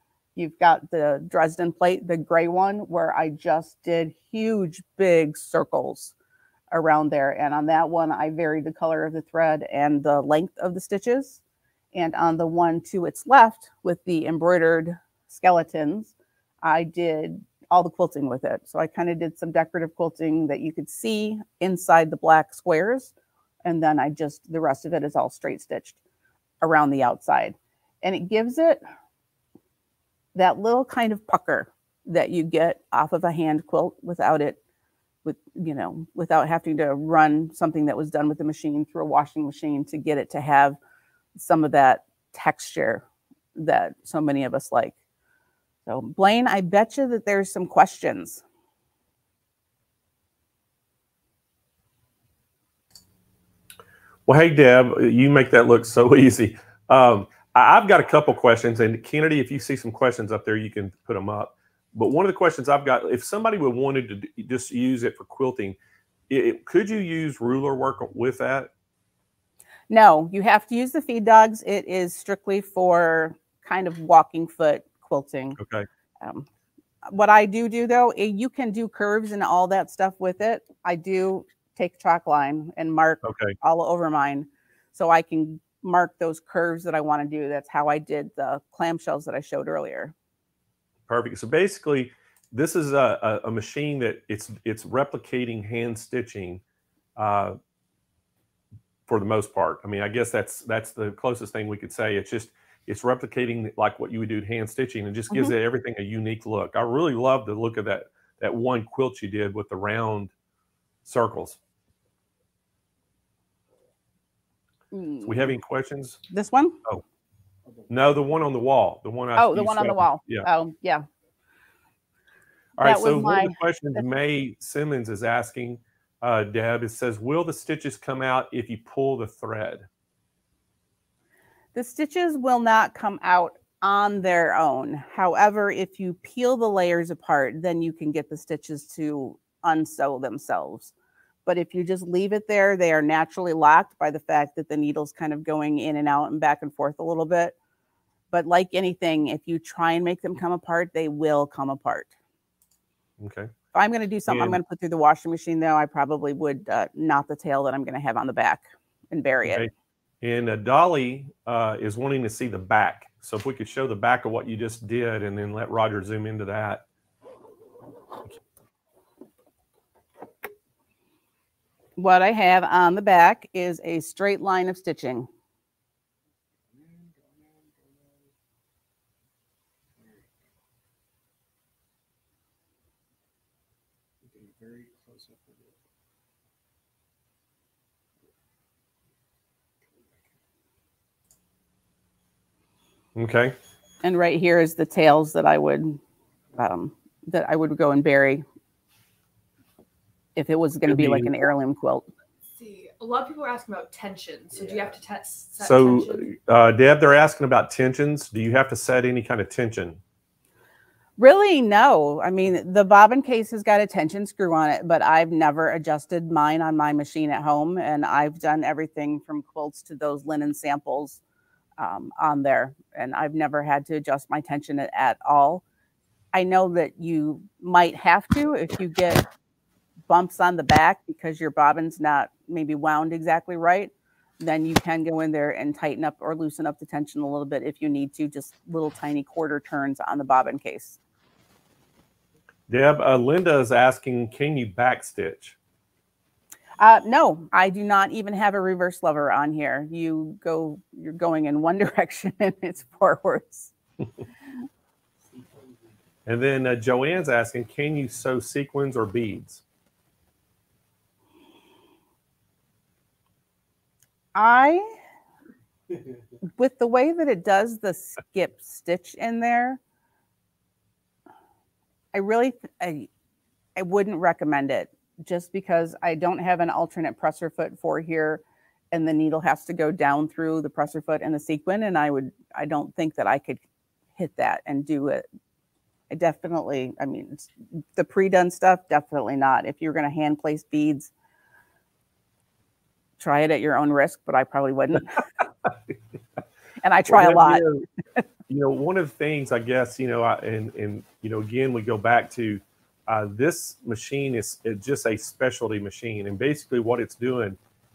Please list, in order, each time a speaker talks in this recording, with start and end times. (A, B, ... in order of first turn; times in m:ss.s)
0:00.4-0:06.1 A
0:06.7-0:11.4 A
0:11.9-0:23.1 A
0:23.6-0:26.0 A
0:26.6-0:28.8 A
0:30.3-0:34.6 A
0:35.2-0:40.8 A
0:41.3-0:43.0 A
0:43.6-0:45.0 A
0:45.8-0:48.4 A
0:54.2-1:05.8 B
1:06.3-1:08.7 B
1:09.9-1:15.6 A
1:15.6-1:15.9 B
1:16.2-1:16.5 A
1:17.0-1:30.1 A
1:23.2-1:23.6 B
1:31.1-1:36.6 B
1:37.2-1:37.6 B
1:39.1-1:50.3 B
1:51.0-1:51.6 B
1:54.9-1:55.6 A
1:55.2-1:56.2 B
1:56.3-1:56.8 A
1:57.6-1:57.9 C
1:57.9-2:00.5 B
1:59.4-2:01.0 A
2:02.8-2:09.9 B
2:02.8-2:04.0 A
2:11.7-2:20.9 A
2:21.4-2:27.5 A
2:28.3-2:32.1 A
2:33.2-2:33.5 B
2:33.7-2:39.7 A
2:34.3-2:34.6 B
2:39.4-2:39.7 B
2:40.2-2:46.8 B
2:52.0-2:55.3 A
2:56.7-2:58.3 C
3:00.0-3:00.4 C
3:04.2-3:05.7 C
3:13.1-3:13.5 B
3:14.0-3:16.0 A
3:16.6-3:18.4 A
3:20.4-3:22.0 A
3:20.9-3:21.3 B
3:22.6-3:26.3 D
3:24.6-3:24.9 C
3:25.6-3:30.0 B
3:31.2-3:41.2 A
3:41.8-3:45.6 A
3:46.3-3:49.2 A
3:50.1-4:01.0 A
4:02.7-4:05.6 B
4:06.8-4:13.7 A
4:16.2-4:19.6 B
4:24.3-4:24.9 A
4:26.6-4:29.8 A
4:32.1-4:33.1 A
4:33.8-4:43.6 A
4:44.2-4:45.2 A
4:46.1-4:51.1 A
4:53.2-4:55.2 A
4:56.8-4:57.6 A
4:57.1-4:57.8 B
4:58.5-5:07.6 B